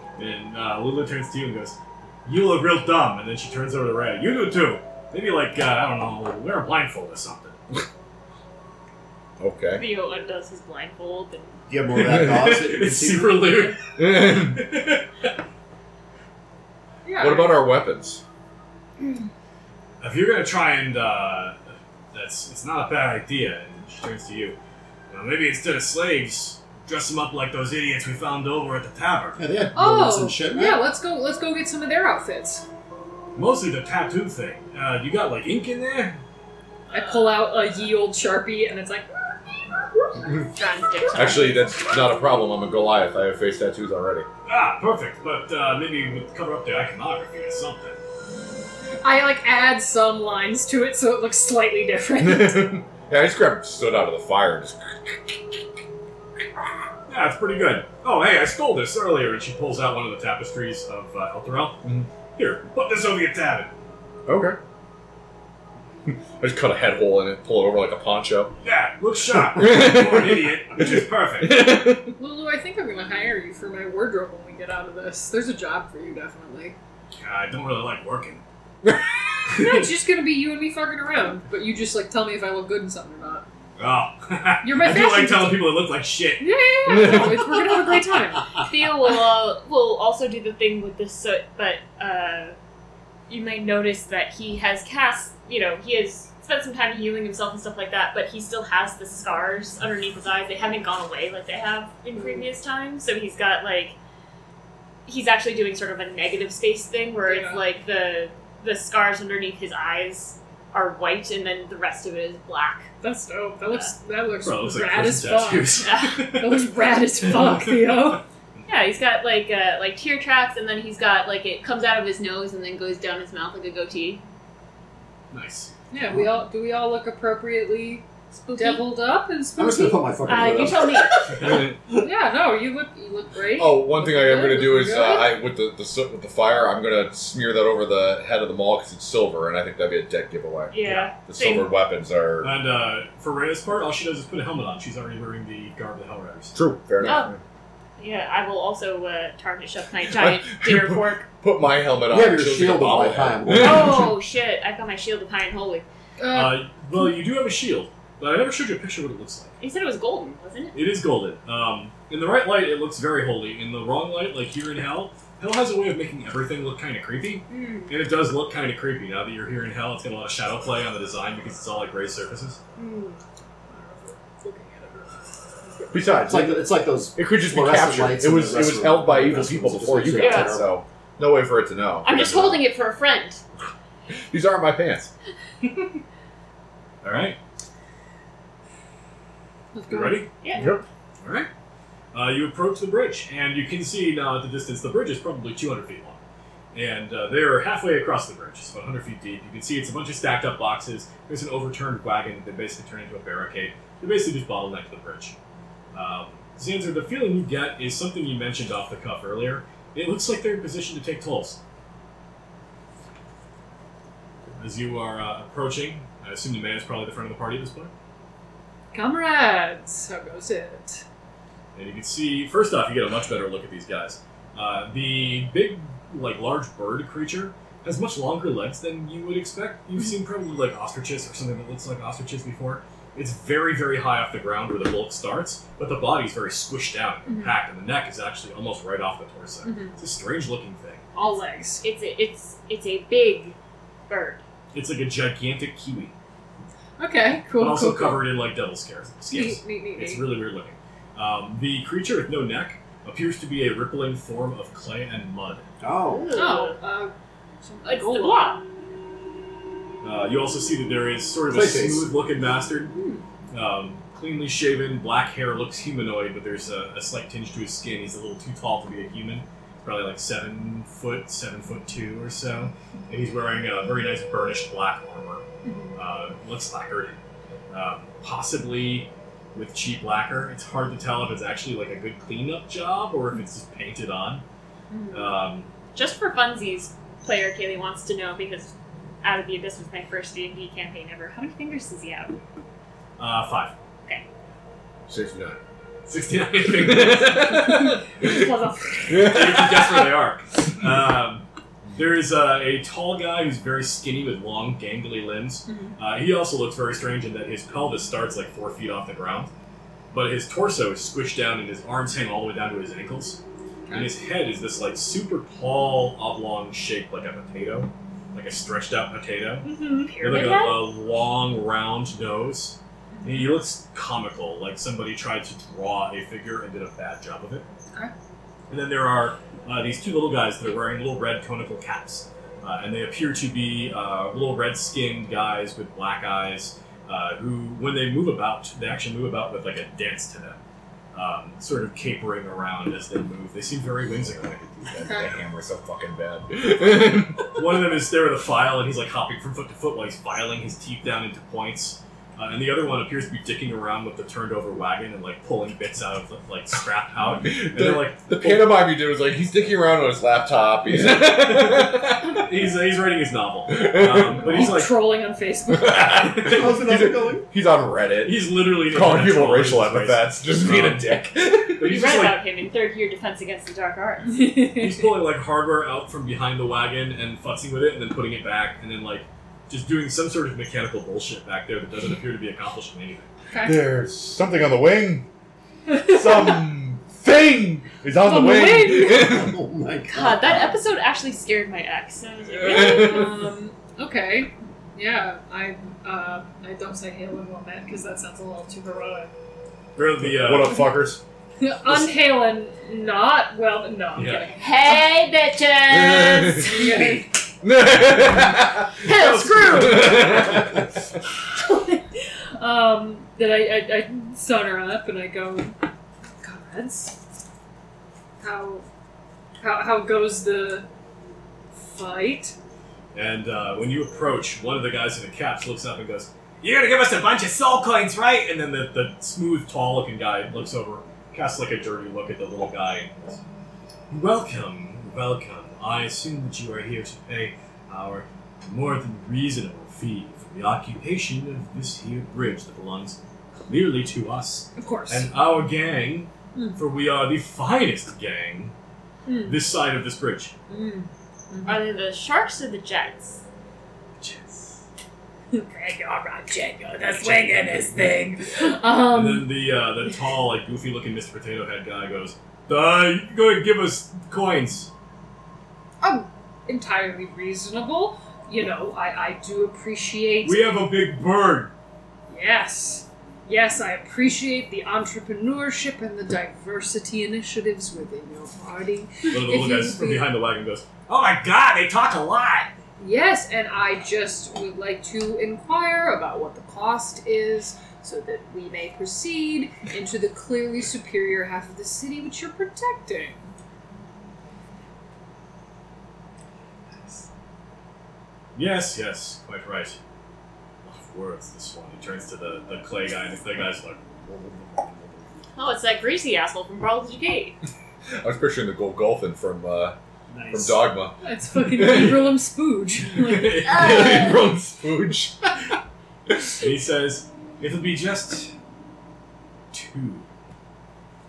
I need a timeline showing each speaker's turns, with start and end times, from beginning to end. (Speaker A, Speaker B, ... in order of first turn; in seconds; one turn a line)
Speaker A: 0.2-7.6
Speaker B: 9.4-9.8
Speaker C: 9.8-11.5
Speaker D: 11.7-13.4
Speaker A: 12.0-15.1
Speaker B: 12.1-12.5
Speaker B: 14.0-14.7
Speaker E: 17.1-17.7
Speaker B: 17.2-18.2
Speaker A: 20.0-24.6
Speaker A: 25.1-29.4
Speaker D: 29.4-30.9
Speaker E: 29.8-32.6
Speaker A: 33.4-36.2
Speaker E: 36.9-39.1
Speaker C: 40.5-41.6
Speaker B: 41.1-44.3
Speaker A: 44.5-48.0
Speaker E: 49.0-52.8
Speaker B: 52.2-55.6
Speaker A: 57.1-61.8
Speaker A: 62.4-63.7
Speaker B: 64.3-64.6
Speaker B: 66.1-68.5
Speaker A: 68.6-71.7
Speaker B: 69.5-70.9
Speaker B: 71.4-72.1
Speaker E: 72.2-76.8
Speaker A: 77.2-78.4
Speaker B: 78.8-79.4
Speaker E: 79.5-83.5
Speaker A: 83.8-87.8
Speaker E: 84.6-85.7
Speaker E: 86.4-88.6
Speaker B: 86.9-87.5
Speaker C: 88.6-92.6
Speaker C: 93.3-104.0
Speaker C: 105.1-112.9
Speaker E: 107.2-107.6
Speaker E: 113.0-118.2
Speaker A: 114.4-118.2
Speaker C: 115.8-116.3
Speaker C: 118.7-124.2
Speaker A: 125.3-125.7
Speaker E: 125.9-130.2
Speaker C: 128.3-129.0
Speaker D: 129.6-131.0
Speaker C: 130.3-131.2
Speaker A: 131.3-131.7
Speaker B: 131.4-132.0
Speaker E: 131.4-135.3
Speaker B: 133.6-142.6
Speaker C: 140.7-141.7
Speaker A: 142.4-146.6
Speaker B: 146.5-147.4
Speaker C: 147.0-147.3
Speaker C: 148.0-151.3
Speaker B: 150.1-154.2
Speaker D: 152.1-154.1
Speaker C: 153.5-155.8
Speaker E: 156.2-157.1
Speaker A: 156.3-159.6
Speaker C: 159.6-160.8
Speaker A: 160.7-172.6
Speaker C: 167.5-167.9
Speaker C: 172.8-173.2
Speaker E: 173.7-176.2
Speaker B: 175.9-182.7
Speaker D: 176.2-180.8
Speaker C: 180.1-180.6
Speaker C: 182.0-183.4
Speaker B: 184.1-185.1
Speaker A: 187.0-187.4
Speaker E: 189.7-190.8
Speaker A: 189.9-190.3
Speaker C: 190.4-190.7
Speaker B: 190.6-190.8
Speaker A: 191.2-191.5
Speaker A: 192.1-196.2
Speaker A: 196.7-205.4
Speaker A: 205.9-211.6
Speaker A: 214.6-217.9
Speaker E: 218.9-221.0
Speaker A: 221.8-241.0
Speaker E: 237.3-237.6
Speaker E: 239.6-240.0
Speaker E: 241.1-241.8
Speaker C: 241.8-243.6
Speaker C: 244.1-244.4
Speaker A: 244.7-246.1
Speaker E: 247.0-248.3
Speaker A: 247.5-255.7
Speaker E: 249.3-250.3
Speaker D: 255.8-256.3
Speaker C: 256.0-256.8
Speaker E: 256.3-258.6
Speaker C: 257.8-258.6
Speaker A: 260.0-262.9
Speaker D: 261.5-262.1
Speaker C: 262.9-263.2
Speaker A: 263.5-277.2
Speaker E: 275.6-276.0
Speaker A: 277.7-284.4
Speaker C: 284.9-285.4
Speaker A: 285.1-285.7
Speaker C: 285.9-292.4
Speaker A: 293.2-293.8
Speaker B: 295.1-295.6
Speaker A: 296.1-297.9
Speaker B: 296.7-298.4
Speaker E: 297.5-299.9
Speaker B: 299.1-299.9
Speaker A: 299.1-309.5
Speaker E: 305.7-306.0
Speaker A: 310.1-327.7
Speaker E: 313.9-314.1
Speaker E: 319.6-320.6
Speaker C: 320.0-320.9
Speaker E: 323.1-323.6
Speaker A: 328.7-340.6
Speaker A: 341.1-344.4
Speaker B: 344.2-347.5
Speaker E: 345.0-345.3
Speaker A: 347.5-358.8
Speaker B: 357.4-362.4
Speaker A: 361.0-365.1
Speaker B: 363.7-364.8
Speaker E: 364.4-366.3
Speaker B: 365.7-371.9
Speaker A: 366.1-366.8
Speaker D: 366.5-367.5
Speaker A: 368.2-371.2
Speaker A: 371.8-372.4
Speaker C: 371.8-374.5
Speaker E: 374.3-375.1
Speaker A: 374.7-383.3
Speaker E: 383.5-383.8
Speaker B: 383.6-385.3
Speaker E: 385.9-386.6
Speaker B: 385.9-389.6
Speaker E: 388.2-389.4
Speaker D: 389.1-390.8
Speaker C: 390.1-393.3
Speaker B: 392.6-393.5
Speaker E: 392.6-399.3
Speaker A: 400.0-400.9
Speaker B: 400.2-401.2
Speaker E: 401.6-405.2
Speaker A: 404.1-404.5
Speaker C: 404.5-407.0
Speaker B: 405.9-406.7
Speaker E: 406.6-407.3
Speaker B: 407.6-409.1
Speaker C: 409.1-410.2
Speaker A: 409.1-410.4
Speaker B: 409.7-410.8
Speaker E: 411.5-415.8
Speaker E: 416.4-417.2
Speaker E: 418.4-418.8
Speaker E: 419.6-420.9
Speaker E: 421.7-422.6
Speaker A: 423.1-433.4
Speaker A: 434.1-448.7
Speaker E: 444.8-445.3
Speaker E: 449.3-449.6
Speaker A: 449.4-450.5
Speaker E: 450.7-451.9
Speaker C: 451.6-453.4
Speaker A: 454.2-454.8
Speaker E: 455.5-459.5
Speaker A: 458.7-464.9
Speaker E: 466.0-470.8
Speaker A: 470.4-471.7
Speaker E: 472.3-480.3
Speaker A: 479.3-482.7
Speaker E: 483.0-493.4
Speaker A: 498.6-500.0
Speaker A: 500.8-505.2
Speaker C: 505.6-507.6
Speaker B: 508.2-510.0
Speaker D: 510.3-510.8
Speaker B: 510.5-511.2
Speaker E: 511.2-513.8
Speaker B: 511.7-512.3
Speaker A: 513.1-514.4
Speaker B: 513.7-515.5
Speaker C: 513.7-514.2
Speaker B: 516.3-516.6
Speaker A: 516.6-518.5
Speaker A: 519.7-520.3